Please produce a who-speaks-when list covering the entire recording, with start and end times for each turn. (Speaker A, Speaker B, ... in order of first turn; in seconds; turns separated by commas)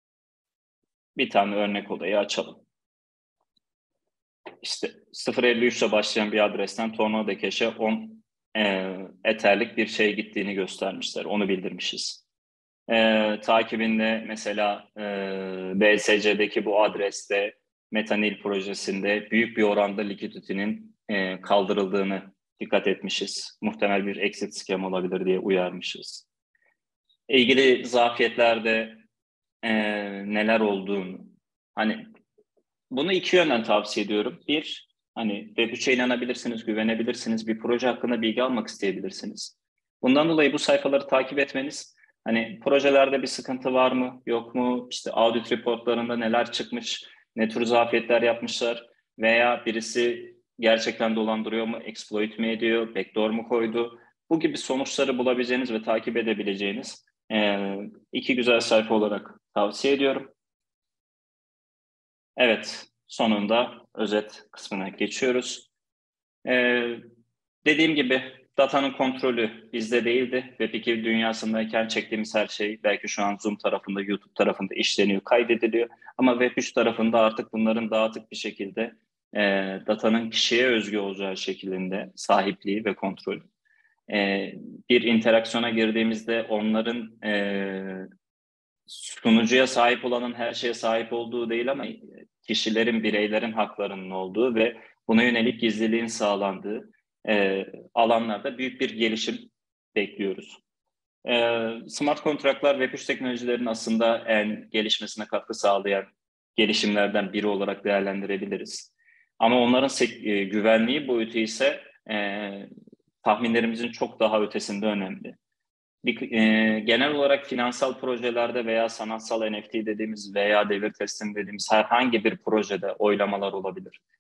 Speaker A: 1.1-2.6, Speaker A: 4.6-12.2, Speaker A: 12.9-26.2, Speaker A: 27.3-29.0, Speaker A: 29.6-32.1, Speaker A: 32.9-60.3, Speaker A: 62.4-65.7, Speaker A: 66.4-67.0, Speaker A: 67.6-83.5, Speaker A: 84.1-88.1, Speaker A: 88.9-100.6, Speaker A: 101.2-112.7, Speaker A: 113.2-115.4, Speaker A: 116.0-124.0